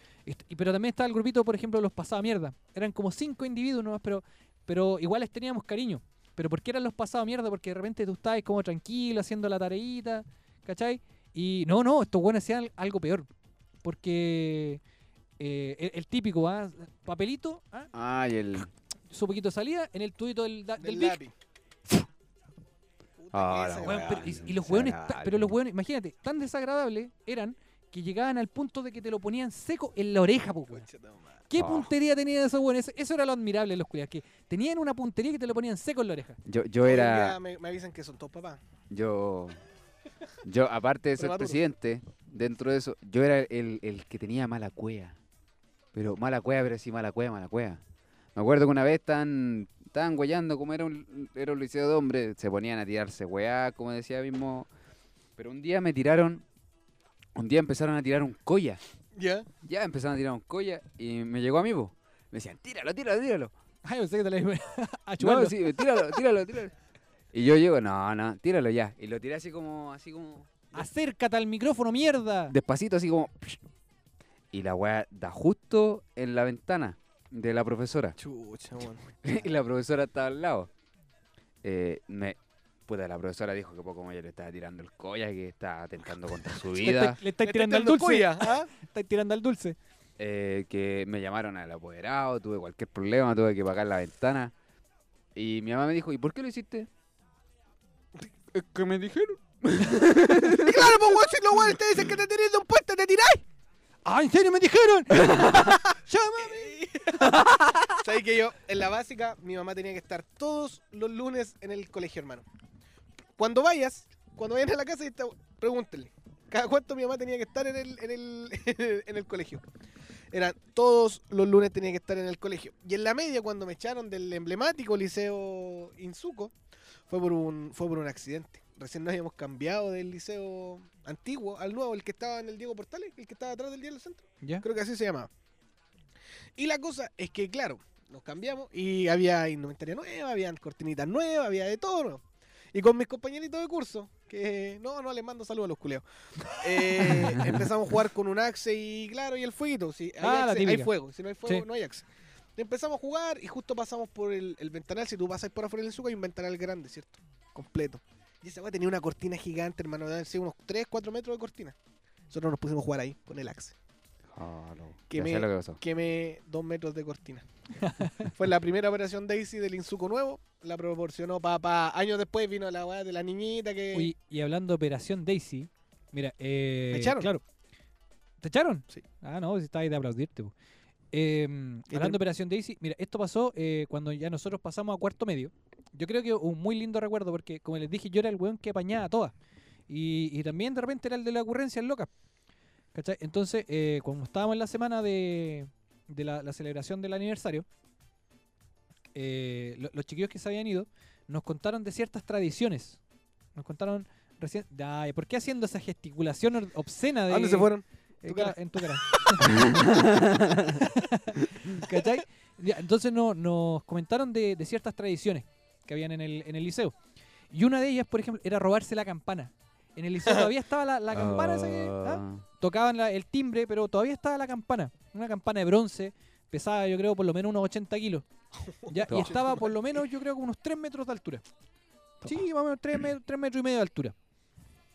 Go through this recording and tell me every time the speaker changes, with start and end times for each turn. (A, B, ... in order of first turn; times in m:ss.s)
0:00.2-0:13.3 A
0:13.8-0:14.8 A
0:15.4-0:17.9 A
0:17.9-0:18.7 B
0:19.1-0:21.2 A
0:20.8-0:21.3 C
0:23.2-0:24.3 C
0:23.3-0:25.5 B
0:23.8-0:30.8 A
0:30.7-0:31.4 C
0:31.5-0:36.4 A
0:31.5-0:31.9 B
0:36.4-0:37.4 B
0:36.8-0:38.6 C
0:38.9-0:39.6 B
0:40.4-0:45.2 B
0:41.2-0:41.6 C
0:45.9-0:47.8 B
0:48.3-0:54.7 B
0:55.4-0:56.4 B
0:57.4-0:58.8 B
0:59.1-0:59.5 C
0:59.6-1:03.5 B
1:03.8-1:05.7 A
1:05.2-1:06.7 B
1:07.3-1:10.9 B
1:10.7-1:12.5 A
1:12.5-1:13.6 B
1:14.5-1:18.2 B
1:18.2-1:19.0 C
1:19.2-1:20.7 B
1:21.6-1:27.2 B
1:26.8-1:29.8 A
1:27.4-1:28.7 C
1:30.2-1:34.5 B
1:35.3-1:36.9 B
1:38.5-1:41.2 B
1:40.5-1:43.4 C
1:44.0-1:46.8 A
1:45.2-1:45.7 B
1:46.4-1:47.2 C
1:47.3-1:47.9 B
1:48.0-1:52.4 C
1:53.4-1:59.6 C
2:00.3-2:06.5 C
2:07.1-2:15.3 C
2:16.6-2:22.2 C
2:22.7-2:32.0 C
2:26.6-2:27.4 A
2:30.2-2:30.9 A
2:32.6-2:41.7 C
2:42.3-2:43.7 C
2:44.3-2:45.8 B
2:45.1-2:47.4 C
2:47.8-2:48.3 A
2:48.2-2:54.1 C
2:53.9-2:57.4 A
2:56.9-2:57.3 C
2:58.4-3:00.5 A
3:01.1-3:09.3 A
3:01.9-3:02.2 C
3:09.9-3:12.1 A
3:12.9-3:17.6 A
3:19.1-3:23.0 A
3:23.5-3:27.7 A
3:27.3-3:28.6 C
3:28.2-3:29.7 A
3:29.4-3:30.8 B
3:30.7-3:36.9 A
3:37.5-3:48.2 A
3:41.1-3:42.4 B
3:48.9-3:49.7 C
3:48.9-3:51.4 A
3:49.0-3:49.4 B
3:52.2-3:54.1 A